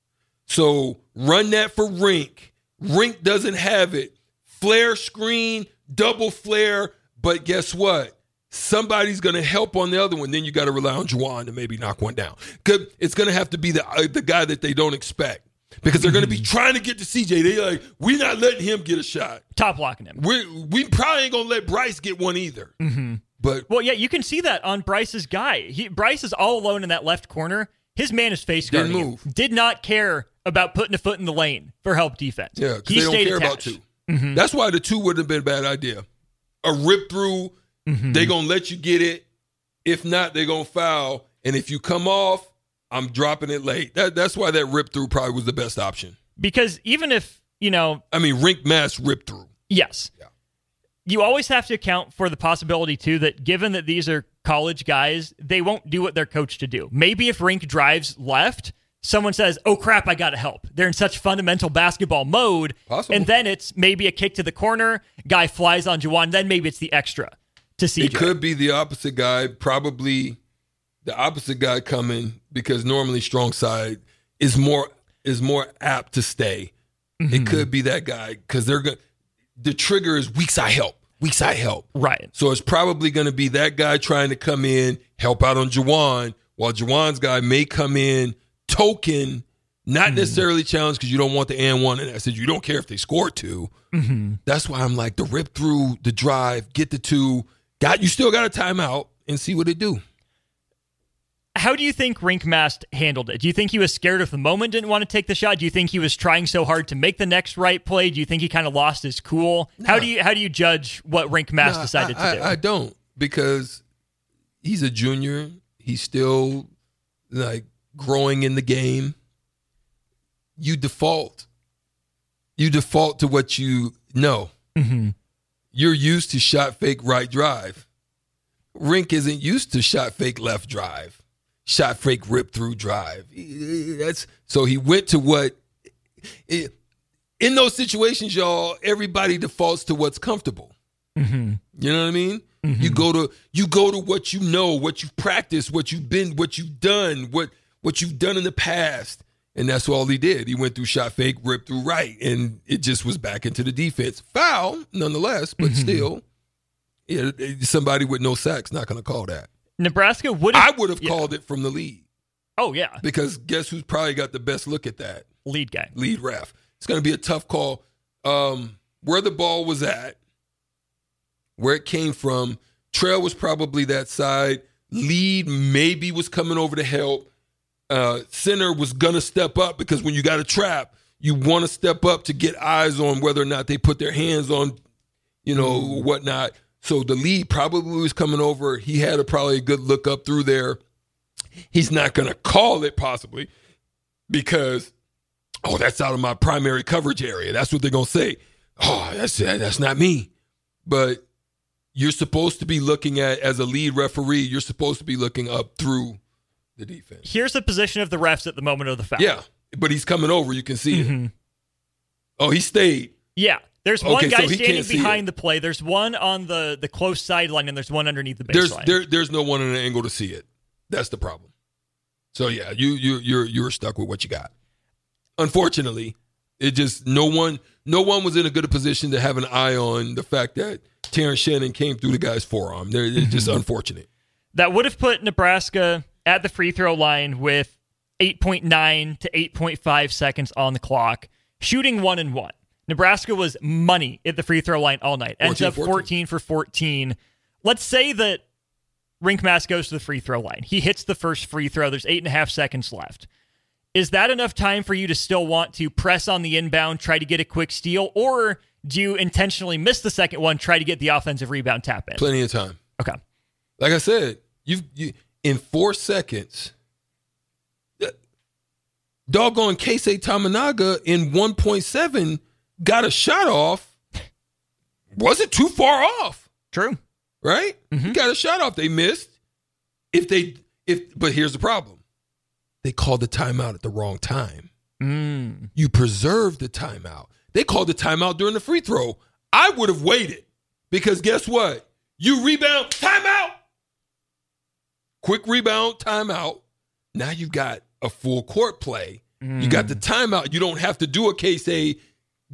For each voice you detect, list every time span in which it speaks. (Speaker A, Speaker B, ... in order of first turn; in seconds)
Speaker A: 0.5-19.4, 20.1-22.7, 23.4-23.7, 28.7-29.2, 32.5-36.0, 36.6-37.5, 38.1-39.2, 39.8-46.1, 48.1-49.5, 62.9-63.3, 68.0-70.4, 71.0-76.7, 77.3-79.0, 79.6-93.7, 94.4-100.0, 109.8-110.1, 111.6-113.8, 114.6-116.7, 117.3-119.2, 120.6-121.5, 122.6-124.5, 125.7-127.8, 128.7-135.6, 136.4-136.7, 137.4-140.7, 141.8-156.2, 157.1-159.5, 160.5-162.0, 163.0-165.3, 165.9-170.2, 171.6-177.3, 177.9-184.8, 185.4-190.8, 191.7-193.5, 194.3-194.9, 195.6-200.3, 200.8-201.2, 201.9-206.2, 206.8-207.2, 209.2-211.1, 212.4-213.1, 214.0-215.2, 218.5-221.5, 222.3-224.5, 225.4-234.1, 245.4-246.1, 262.2-262.8, 263.8-266.7, 269.3-273.9, 275.1-276.4, 277.4-279.3, 280.1-282.0, 282.8-284.7, 285.8-293.6, 295.2-296.6, 297.1-302.0
Speaker B: 15.9-16.5, 19.5-20.2, 22.8-34.4, 37.9-38.3, 46.4-48.0, 49.7-50.1, 51.0-68.3, 77.2-77.7, 81.9-82.3, 90.0-90.4, 93.9-94.4, 101.5-112.6, 124.8-125.1, 141.2-141.6, 142.6-143.1, 155.6-156.1, 159.8-161.3, 162.6-163.0, 165.4-165.9, 185.6-186.1, 207.2-209.4, 210.9-211.3, 213.3-219.0, 233.2-233.6, 234.5-248.4, 249.2-253.2, 253.9-262.3, 276.7-277.0, 277.9-278.2, 285.0-285.7, 299.4-300.0